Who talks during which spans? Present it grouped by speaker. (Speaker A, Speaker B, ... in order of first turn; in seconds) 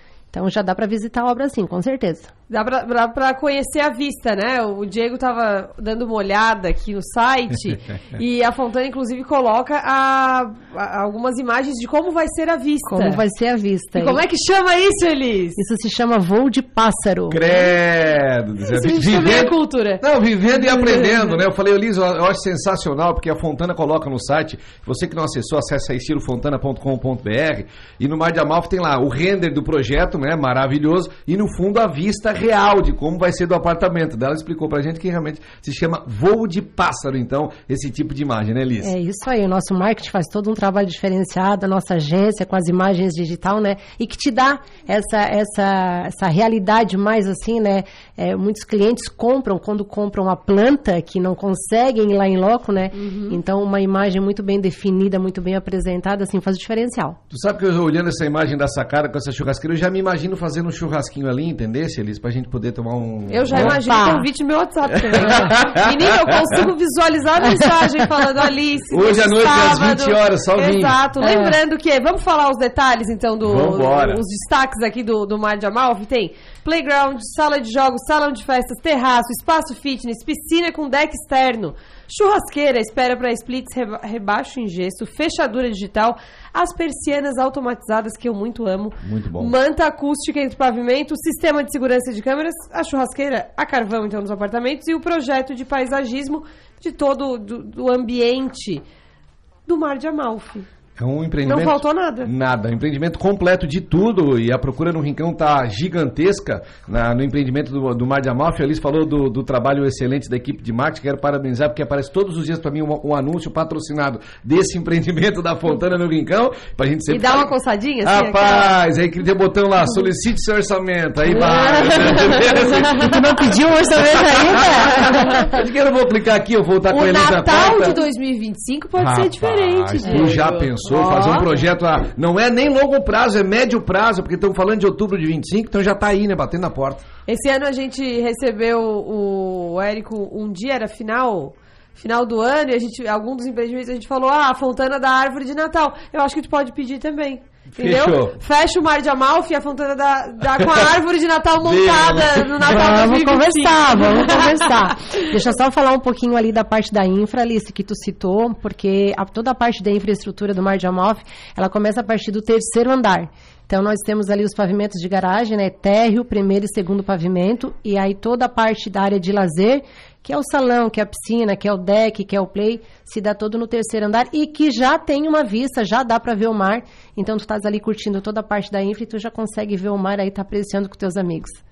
Speaker A: 0.3-2.3, 12.8-14.2, 15.6-17.4, 38.8-57.2, 63.5-64.3, 71.2-71.6, 122.9-125.6, 152.7-181.6
Speaker B: 2.5-13.2, 13.9-15.6, 18.6-21.4, 52.9-53.4, 63.3-98.8, 99.7-100.7, 101.5-102.3, 117.1-118.7, 121.3-123.1, 126.9-131.7, 137.3-155.1
Speaker C: 17.3-38.9, 57.3-63.8, 65.0-66.6, 68.9-71.0, 73.4-74.2, 89.0-89.5, 101.0-117.4, 118.0-123.3, 124.0-128.0, 129.0-137.0, 147.8-148.4, 151.6-152.9